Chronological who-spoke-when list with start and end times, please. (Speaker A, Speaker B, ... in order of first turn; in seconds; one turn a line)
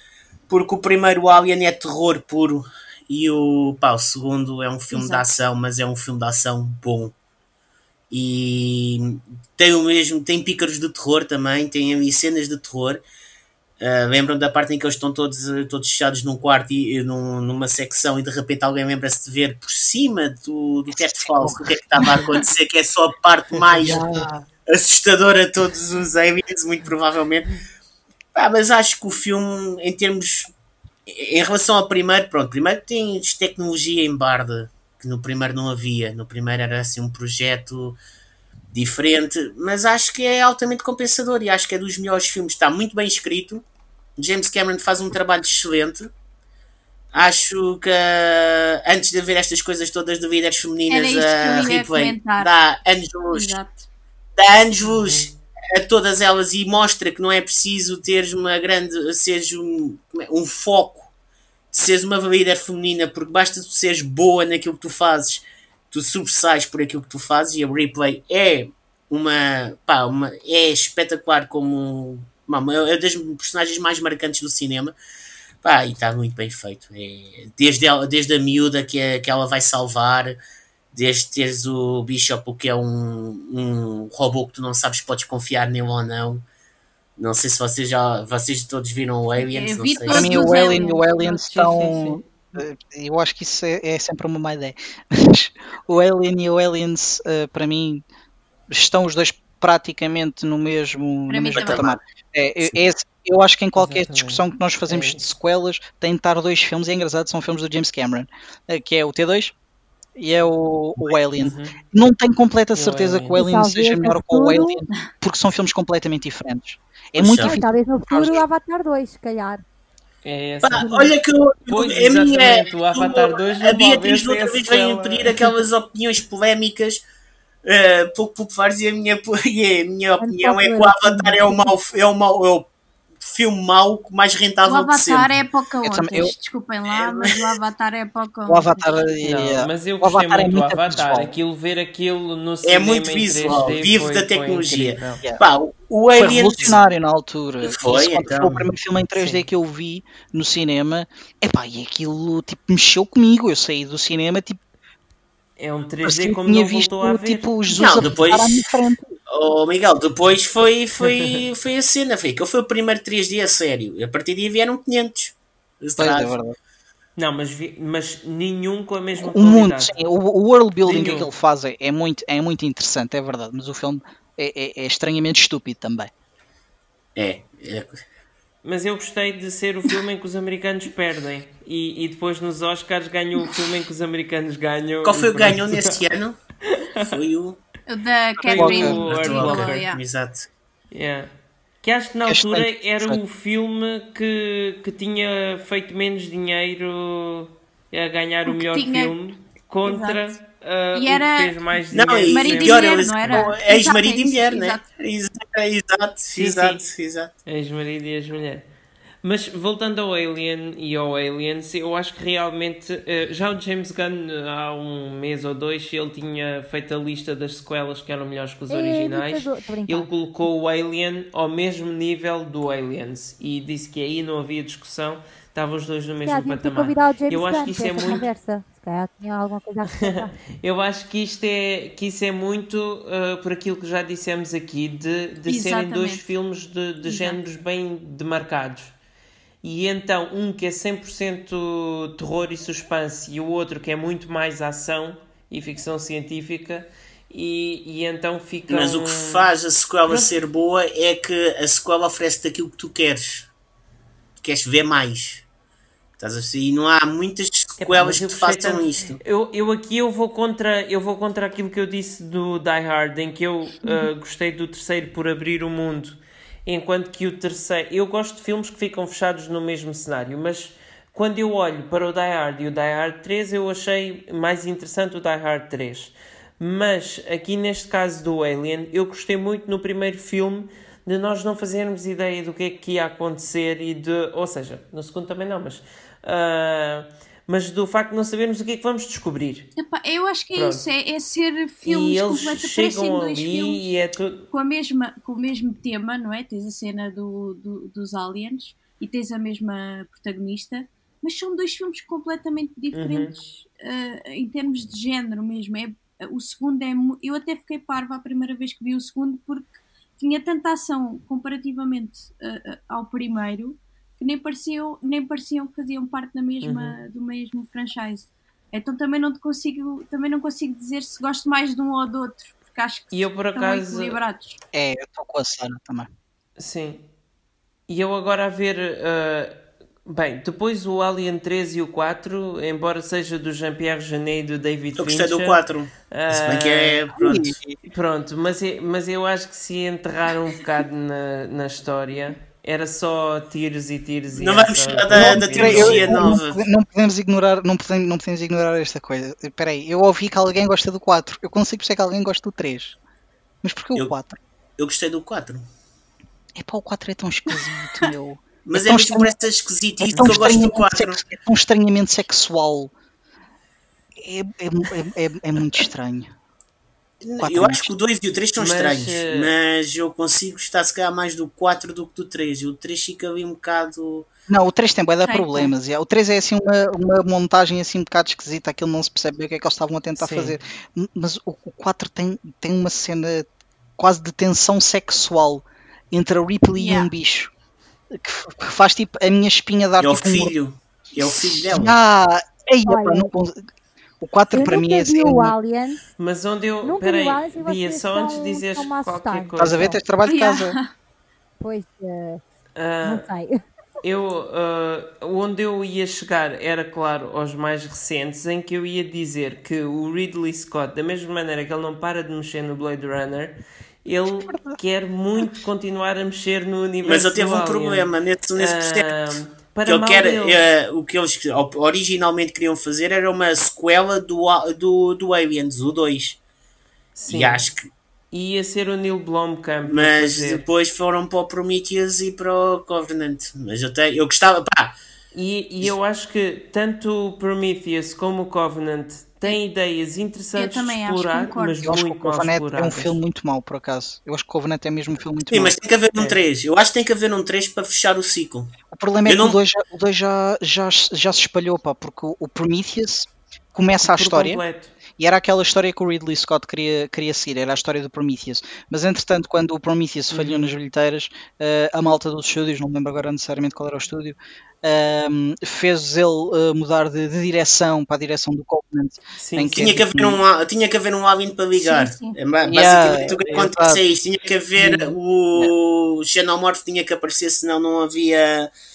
Speaker A: 0.5-7.1
Speaker B: 4.9-5.3
Speaker A: 8.1-13.0
Speaker A: 13.8-27.6
Speaker C: 20.9-22.1
Speaker C: 23.8-24.4
Speaker A: 28.4-30.5
Speaker A: 31.1-38.0
Speaker A: 38.7-43.6
Speaker A: 44.2-46.1
Speaker A: 47.1-53.6
Speaker D: 50.9-52.5
Speaker D: 53.3-53.9
Speaker A: 54.4-61.1
Speaker E: 54.9-55.4
Speaker A: 61.7-75.0
Speaker A: 75.6-80.4
Speaker A: 80.9-86.4
Speaker A: 87.2-90.6
Speaker D: 89.3-92.0
Speaker C: 90.1-98.0
Speaker E: 91.5-92.3
Speaker C: 98.7-109.5
Speaker D: 101.3-102.0
Speaker A: 101.5-102.0
Speaker E: 103.8-105.3
Speaker C: 110.2-118.4
Speaker E: 111.4-111.8
Speaker E: 112.7-113.4
Speaker B: 113.3-114.8
Speaker A: 117.2-117.6
Speaker B: 117.4-119.6
Speaker E: 120.2-120.9
Speaker A: 120.6-127.0
Speaker B: 120.8-121.1
Speaker E: 121.7-125.6
Speaker A: 127.7-132.7
Speaker B: 130.2-131.7
Speaker A: 133.2-135.4
Speaker D: 134.7-139.1
Speaker C: 135.8-136.3
Speaker A: 136.9-137.5
Speaker C: 138.5-141.3
Speaker E: 139.2-145.2
Speaker A: 142.6-146.8
Speaker C: 146.1-154.6
Speaker A: 147.6-148.7
Speaker E: 149.2-149.4
Speaker E: 155.6-158.2
Speaker C: 156.0-159.2
Speaker A: 157.8-158.8
Speaker A: 159.3-166.4
Speaker C: 165.9-166.6
Speaker E: 167.2-169.9
Speaker C: 169.2-176.1
Speaker E: 170.8-171.3
Speaker A: 177.2-178.0
Speaker E: 178.6-186.0
Speaker A: 185.0-186.4
Speaker E: 186.7-187.2
Speaker A: 187.1-187.6
Speaker D: 187.9-190.0
Speaker E: 188.4-189.8
Speaker C: 188.6-189.0
Speaker A: 188.8-190.5
Speaker E: 190.9-191.3
Speaker E: 191.8-203.5
Speaker C: 192.3-193.2
Speaker D: 198.5-199.2
Speaker D: 199.8-200.2
Speaker D: 200.9-201.6
Speaker A: 201.9-207.3
Speaker D: 202.3-204.9
Speaker E: 206.3-206.9
Speaker E: 207.5-208.7
Speaker E: 209.2-228.2
Speaker B: 218.7-220.1
Speaker B: 226.2-230.4
Speaker D: 228.0-228.2
Speaker E: 230.0-238.9
Speaker D: 235.5-236.3
Speaker D: 237.1-237.4
Speaker E: 239.6-249.5
Speaker A: 248.7-253.5
Speaker E: 250.1-250.3
Speaker A: 254.4-255.4
Speaker A: 256.2-259.2
Speaker E: 257.8-289.7
Speaker D: 289.8-293.8
Speaker E: 290.5-290.9
Speaker E: 291.8-294.5
Speaker D: 294.5-324.6
Speaker E: 302.9-303.4
Speaker E: 316.6-317.0
Speaker E: 323.1-324.2
Speaker C: 324.7-326.1
Speaker E: 326.6-327.1
Speaker E: 327.9-335.6
Speaker A: 335.0-337.6
Speaker E: 336.1-337.0
Speaker C: 337.1-337.8
Speaker E: 337.9-346.4
Speaker A: 344.3-346.6
Speaker C: 345.1-353.0
Speaker C: 353.6-354.4
Speaker A: 354.8-355.7
Speaker C: 356.6-359.3
Speaker A: 358.7-361.2
Speaker C: 360.1-362.9
Speaker E: 360.1-360.5
Speaker C: 364.1-366.3
Speaker A: 367.2-374.3
Speaker C: 367.4-367.9
Speaker E: 368.6-369.5
Speaker C: 374.5-387.5
Speaker D: 375.2-375.7
Speaker E: 380.2-380.6
Speaker D: 386.8-387.1
Speaker C: 388.1-390.5
Speaker A: 390.0-392.0
Speaker C: 391.7-393.6
Speaker B: 392.9-393.3
Speaker C: 394.2-395.6
Speaker B: 394.5-396.0
Speaker E: 396.2-400.0
Speaker B: 396.8-399.9
Speaker C: 399.6-400.8
Speaker D: 400.2-400.9
Speaker B: 401.6-402.4
Speaker E: 402.8-403.3
Speaker B: 403.0-403.6
Speaker E: 404.0-420.6
Speaker C: 414.5-414.8
Speaker A: 417.0-426.4
Speaker E: 427.2-427.7
Speaker A: 427.3-427.9
Speaker E: 428.3-430.6
Speaker A: 429.9-435.0
Speaker E: 435.3-443.2
Speaker D: 440.6-442.0
Speaker C: 441.8-445.8
Speaker A: 445.5-448.7
Speaker E: 446.2-446.4
Speaker C: 448.9-454.6
Speaker A: 449.3-449.6
Speaker E: 454.0-454.9
Speaker C: 455.2-470.4
Speaker E: 460.3-460.7
Speaker E: 469.4-469.8
Speaker A: 469.7-478.7
Speaker D: 471.8-472.4
Speaker C: 472.6-474.0
Speaker C: 474.8-475.7